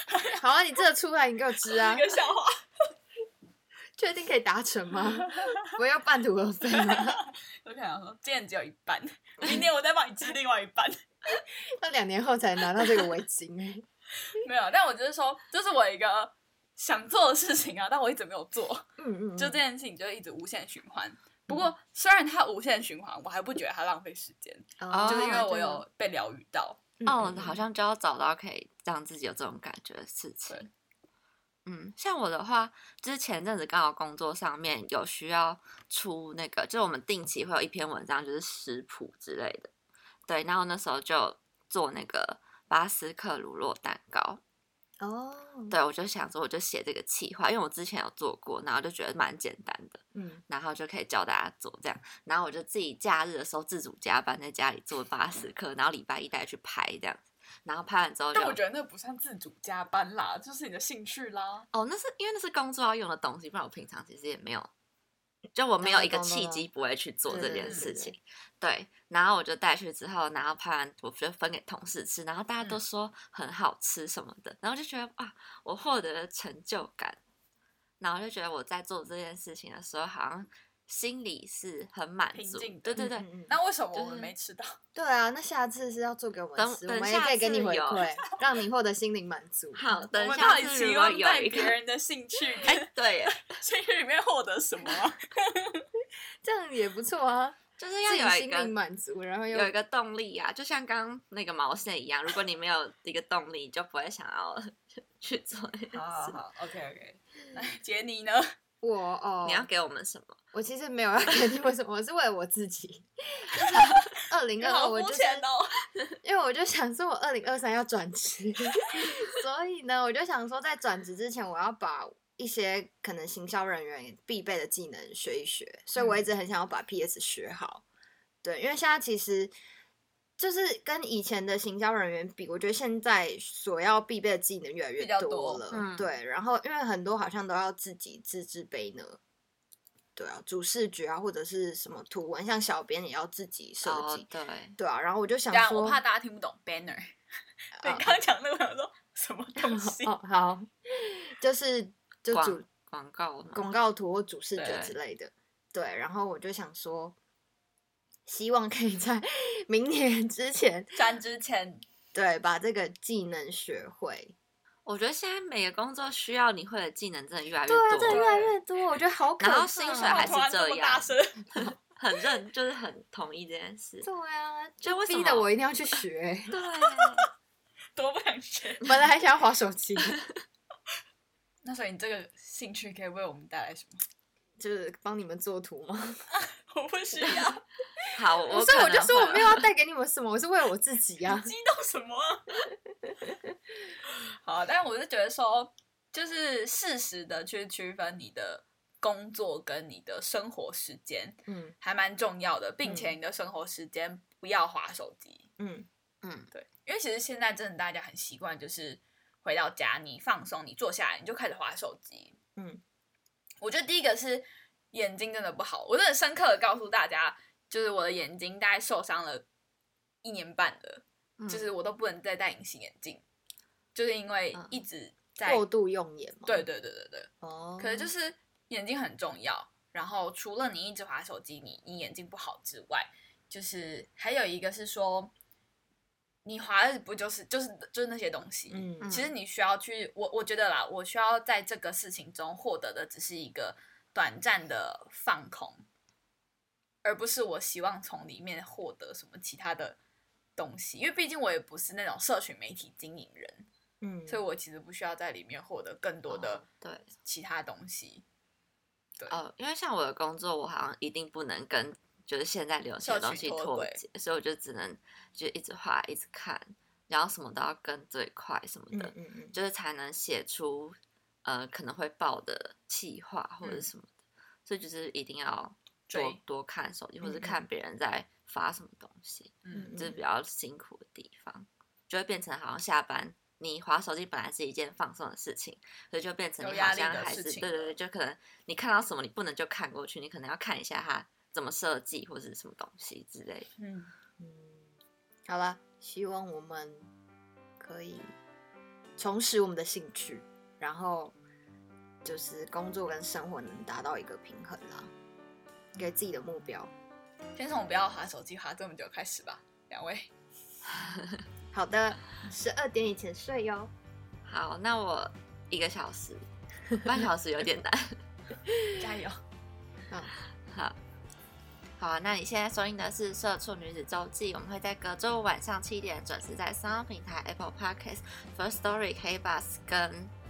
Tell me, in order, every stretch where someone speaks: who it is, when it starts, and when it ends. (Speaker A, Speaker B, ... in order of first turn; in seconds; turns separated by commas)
Speaker A: 0.4-2.1, Speaker B: 1.7-2.6, Speaker A: 4.0-7.2, Speaker B: 5.3-5.7, Speaker B: 6.8-11.4, Speaker A: 11.7-13.8, Speaker B: 14.4-26.8, Speaker A: 19.0-19.6, Speaker A: 24.8-25.8, Speaker C: 24.9-25.5, Speaker A: 27.0-27.6, Speaker C: 27.1-30.7, Speaker C: 31.6-39.7, Speaker C: 40.3-44.4, Speaker A: 45.0-45.8, Speaker C: 45.7-58.6, Speaker A: 50.1-50.4, Speaker B: 58.3-61.7, Speaker C: 61.7-64.7, Speaker C: 65.5-77.2, Speaker A: 65.8-66.7, Speaker A: 67.3-68.2, Speaker C: 78.0-83.3, Speaker B: 82.3-84.8, Speaker A: 83.0-83.6, Speaker C: 83.9-84.3, Speaker A: 85.0-89.9, Speaker C: 86.6-88.1, Speaker C: 89.8-91.8, Speaker B: 90.1-95.9, Speaker C: 92.6-93.5, Speaker A: 96.4-99.7, Speaker C: 97.8-98.7, Speaker C: 99.5-106.3, Speaker B: 105.9-108.5, Speaker A: 108.8-109.7, Speaker C: 109.5-110.4, Speaker A: 110.5-115.5, Speaker B: 113.5-115.8, Speaker A: 116.2-127.8, Speaker A: 128.4-129.5, Speaker A: 130.4-139.2, Speaker B: 135.0-135.6, Speaker C: 135.7-136.1, Speaker A: 140.2-144.3, Speaker C: 143.8-144.8, Speaker A: 144.8-146.0, Speaker B: 145.5-147.2, Speaker B: 147.8-150.1, Speaker A: 147.8-148.1, Speaker A: 149.6-152.6, Speaker C: 152.3-153.7, Speaker A: 153.6-157.2, Speaker B: 154.6-154.9, Speaker C: 154.6-154.9, Speaker A: 158.3-161.0, Speaker B: 160.9-161.8, Speaker A: 162.1-164.3, Speaker C: 164.9-168.3, Speaker A: 167.7-170.4, Speaker B: 168.1-168.5, Speaker C: 169.4-174.1, Speaker B: 169.7-171.5, Speaker A: 174.0-176.6, Speaker C: 174.8-175.5, Speaker C: 176.5-177.3, Speaker B: 178.0-178.9, Speaker A: 178.8-180.2, Speaker B: 181.6-184.0, Speaker A: 184.6-186.2, Speaker B: 186.4-187.6, Speaker C: 188.2-189.6, Speaker A: 188.5-191.5, Speaker B: 191.3-192.5, Speaker B: 194.1-205.5, Speaker A: 201.5-201.8, Speaker A: 202.8-203.2, Speaker A: 205.6-205.9, Speaker C: 206.2-206.5, Speaker B: 206.5-212.4, Speaker B: 213.6-219.4, Speaker B: 220.2-223.2, Speaker C: 221.4-221.7, Speaker B: 223.9-225.6, Speaker A: 225.4-226.7, Speaker B: 226.5-235.3, Speaker A: 227.4-228.1, Speaker B: 236.4-245.8, Speaker A: 238.7-239.2, Speaker C: 239.0-239.3, Speaker B: 247.0-250.0, Speaker B: 250.6-253.7, Speaker A: 254.0-254.4, Speaker B: 254.3-256.6, Speaker C: 256.3-257.1, Speaker B: 257.2-258.2, Speaker C: 259.3-274.1, Speaker B: 263.0-264.0, Speaker A: 268.9-269.6, Speaker C: 274.6-293.7, Speaker B: 276.1-276.4, Speaker A: 277.2-277.6, Speaker B: 279.6-280.0, Speaker A: 279.7-280.2, Speaker B: 286.6-287.9, Speaker B: 293.8-294.1, Speaker A: 294.4-294.9, Speaker A: 295.5-297.1, Speaker A: 297.8-298.3, Speaker A: 299.2-301.3, Speaker A: 302.2-305.1, Speaker A: 306.0-306.9, Speaker B: 307.6-310.3, Speaker C: 310.9-311.4, Speaker A: 311.7-313.9, Speaker C: 314.5-316.5, Speaker C: 317.0-318.2, Speaker B: 319.0-319.4, Speaker C: 320.7-321.0, Speaker C: 322.0-330.3